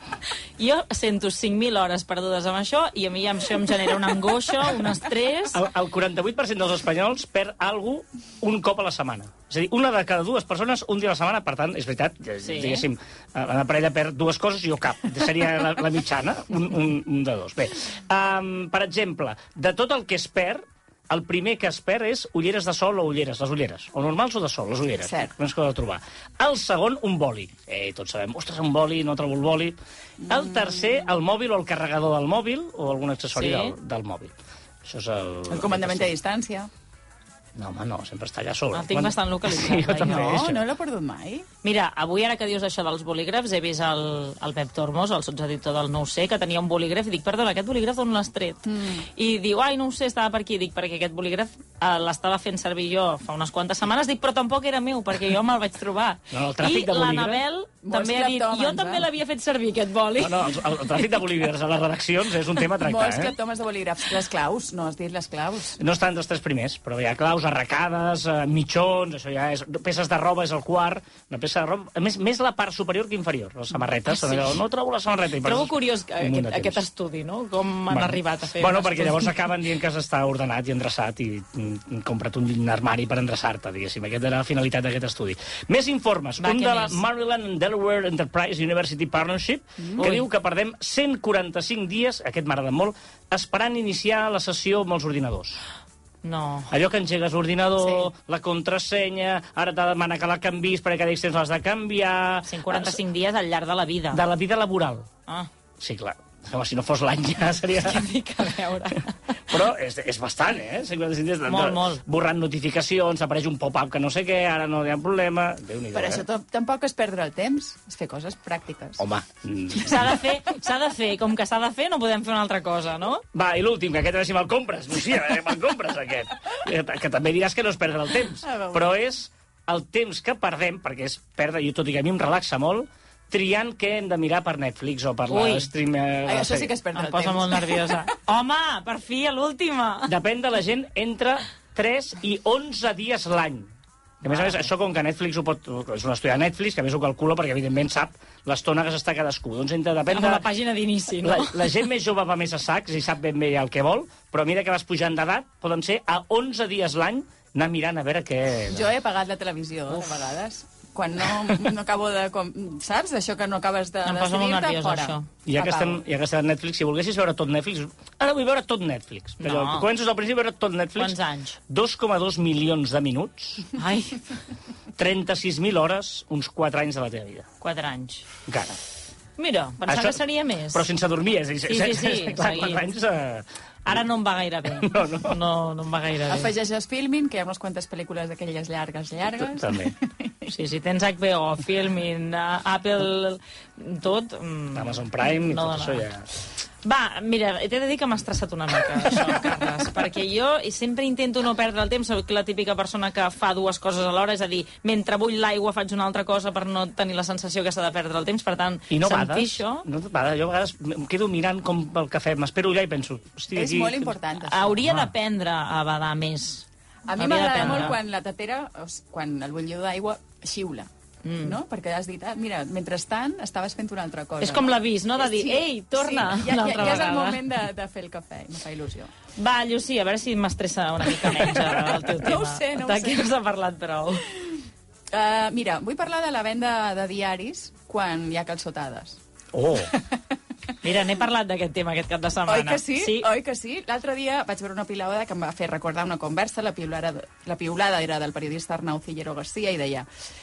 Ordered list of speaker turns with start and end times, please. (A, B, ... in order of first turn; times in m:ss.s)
0:00.6-0:05.6 A
0:05.5-0:29.8 B
0:12.4-0:12.9 A
0:25.0-0:25.3 C
0:30.2-0:31.1 C
0:30.3-0:36.1 B
0:33.4-0:33.8 A
0:35.5-0:36.7 C
0:37.6-0:40.6 B
0:38.7-0:40.4 A
0:40.0-0:41.4 C
0:41.6-1:00.4 A
0:48.7-0:49.0 C
0:56.3-0:57.4 B
0:57.8-0:59.1 C
1:00.2-1:03.3 B
1:02.8-1:05.8 C
1:05.8-1:16.8 B
1:14.1-1:14.5 A
1:15.4-1:19.4 A
1:17.9-1:35.6 B
1:26.4-1:27.0 A
1:29.8-1:30.1 C
1:30.0-1:30.2 A
1:36.2-1:36.7 A
1:36.7-1:43.0 B
1:42.4-1:44.2 A
1:44.1-1:45.1 B
1:45.8-1:48.1 B
1:47.8-1:49.2 A
1:49.5-1:56.2 B
1:51.4-1:52.0 A
1:55.9-1:59.0 C
1:59.0-2:00.2 B
1:59.8-2:03.2 A
2:03.3-2:16.7 B
2:08.4-2:08.9 C
2:15.3-2:15.7 A
2:16.2-2:18.0 C
2:16.9-2:20.2 A
2:20.1-2:23.7 B
2:24.2-2:30.4 B
2:24.2-2:24.7 A
2:30.1-2:31.6 A
2:31.2-2:38.9 B
2:38.7-2:46.0 C
2:44.0-2:45.3 A
2:45.4-2:51.2 B
2:49.4-2:49.9 A
2:51.0-2:51.6 A
2:51.7-2:53.7 B
2:53.8-2:54.2 A
2:55.0-2:57.5 B
2:57.6-2:58.3 A
2:58.5-2:58.8 B
2:59.4-3:00.8 A
2:59.9-3:04.1 B
3:01.7-3:02.8 A
3:03.9-3:06.5 A
3:04.7-3:05.4 B
3:06.3-3:10.5 C
3:09.4-3:09.9 B
3:10.4-3:16.1 A
3:14.8-3:16.3 B
3:16.8-3:29.9 A
3:28.9-3:34.1 B
3:33.5-3:34.8 C
3:34.4-3:36.6 A
3:34.8-3:35.1 B
3:37.1-3:40.9 C
3:37.2-3:37.9 A
3:37.5-3:37.9 B
3:41.2-3:41.6 A
3:41.4-3:49.1 C
3:44.4-3:47.4 A
3:49.4-3:54.3 A
3:52.1-3:53.3 C
3:55.1-3:59.2 C
3:59.5-3:59.9 B
3:59.9-4:00.2 C
4:00.8-4:03.3 A
4:02.5-4:10.1 C